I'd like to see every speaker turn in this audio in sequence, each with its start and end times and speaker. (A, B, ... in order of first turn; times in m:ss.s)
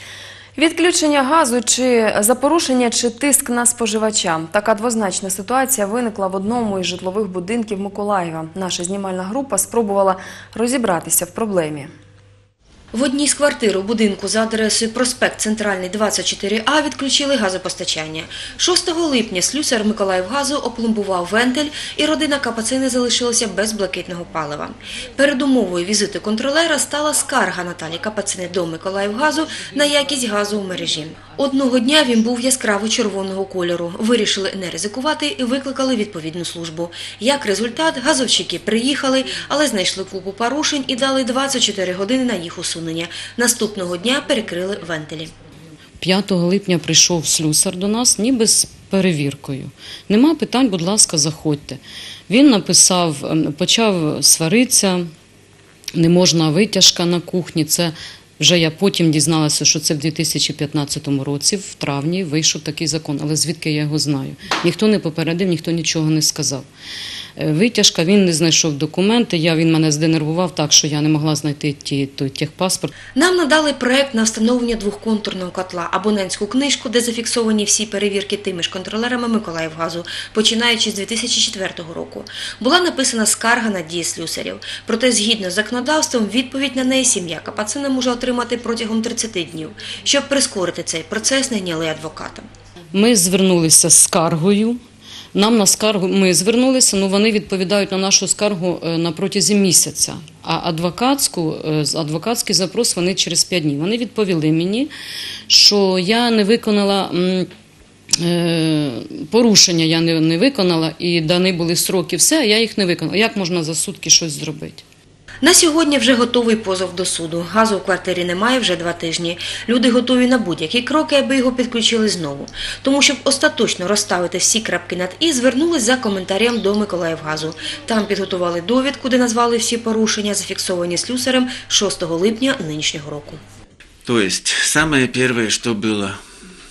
0:00.6-0:11.9 A
0:12.9-0:45.3 B
0:46.0-0:55.1 C
0:56.0-1:06.7 C
1:07.4-1:12.9 C
1:13.2-1:32.5 B
1:32.9-1:34.8 C
1:35.4-1:44.9 C
1:45.5-1:47.5 C
1:48.2-1:54.8 C
1:55.4-2:13.4 B
2:14.1-2:16.2 D